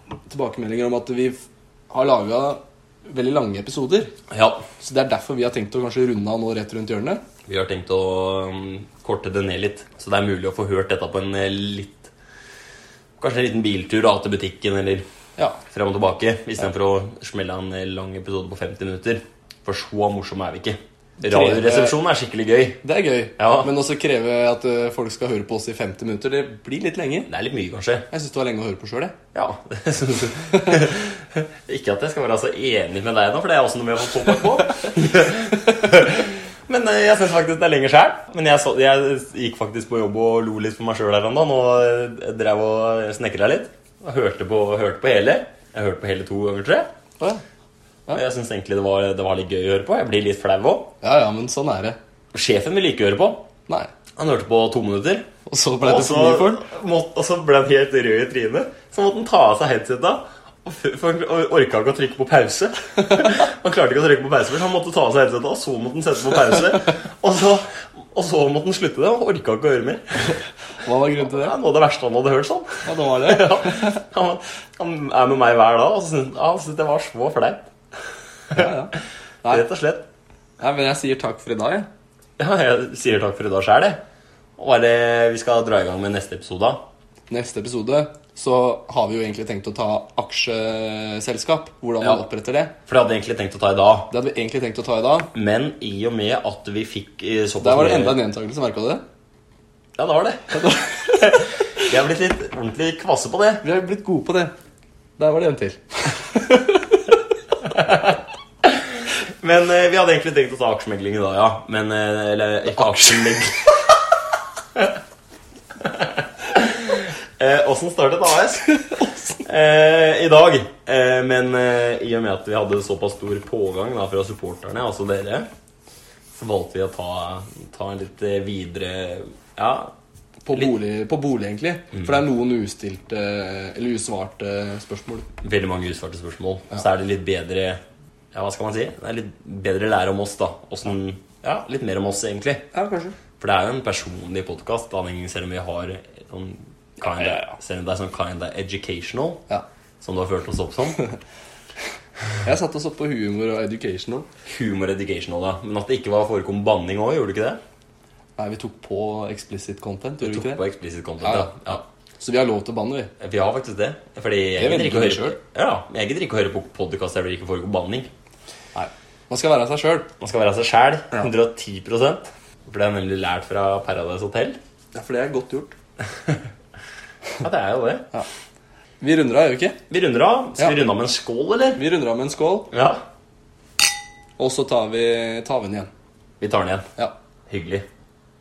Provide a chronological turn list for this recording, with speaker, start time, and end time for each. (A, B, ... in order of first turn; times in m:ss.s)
0:00.3-0:04.1 A
0:04.3-0:04.6 B
0:04.8-0:07.2 A
0:07.5-0:12.1 B
0:13.2-0:15.0 B
0:15.7-0:22.8 B
0:21.2-0:22.0 A
0:22.8-0:27.3 A
0:23.4-0:23.7 B
0:27.3-0:28.1 B
0:28.1-0:29.2 A
0:29.3-0:46.9 B
0:48.1-0:50.9 B
0:51.0-0:52.0 A
0:52.3-0:53.5 B
0:54.2-0:55.3 B
0:55.4-0:56.6 A
0:55.8-1:10.4 B
1:10.8-1:11.5 A
1:11.2-1:17.7 B
1:12.8-1:14.0 A
1:18.5-1:18.9 A
1:19.5-1:20.0 B
1:20.6-1:21.9 A
1:22.4-1:24.0 B
1:24.6-1:26.8 B
1:27.3-1:32.7 A
1:32.8-1:34.1 B
1:34.1-1:35.3 A
1:35.3-1:38.2 B
1:37.6-1:39.0 A
1:40.0-1:43.6 B
1:40.5-1:41.4 A
1:43.6-1:44.5 A
1:45.2-1:47.2 A
1:47.7-1:53.7 B
1:52.9-1:53.3 A
1:55.8-2:05.5 B
1:58.9-1:59.3 A
2:06.3-2:09.9 B
2:10.4-2:15.2 A
2:15.4-2:17.8 B
2:18.3-2:22.7 B
2:22.7-2:23.2 A
2:23.4-2:29.5 B
2:27.0-2:27.5 A
2:30.0-2:31.0 B
2:32.4-2:34.3 A
2:34.4-2:37.6 B
2:38.4-2:40.6 A
2:40.2-2:41.8 B
2:41.2-2:43.1 A
2:43.2-2:48.1 B
2:44.6-2:45.4 A
2:48.7-2:50.1 A
2:50.2-2:54.6 B
2:54.9-2:55.7 A
2:57.4-2:58.1 B
2:59.0-2:59.8 A
2:59.9-3:01.8 B
3:00.6-3:00.8 A
3:01.8-3:02.7 A
3:02.7-3:03.0 B
3:04.4-3:05.9 A
3:06.4-3:06.9 B
3:07.5-3:07.8 B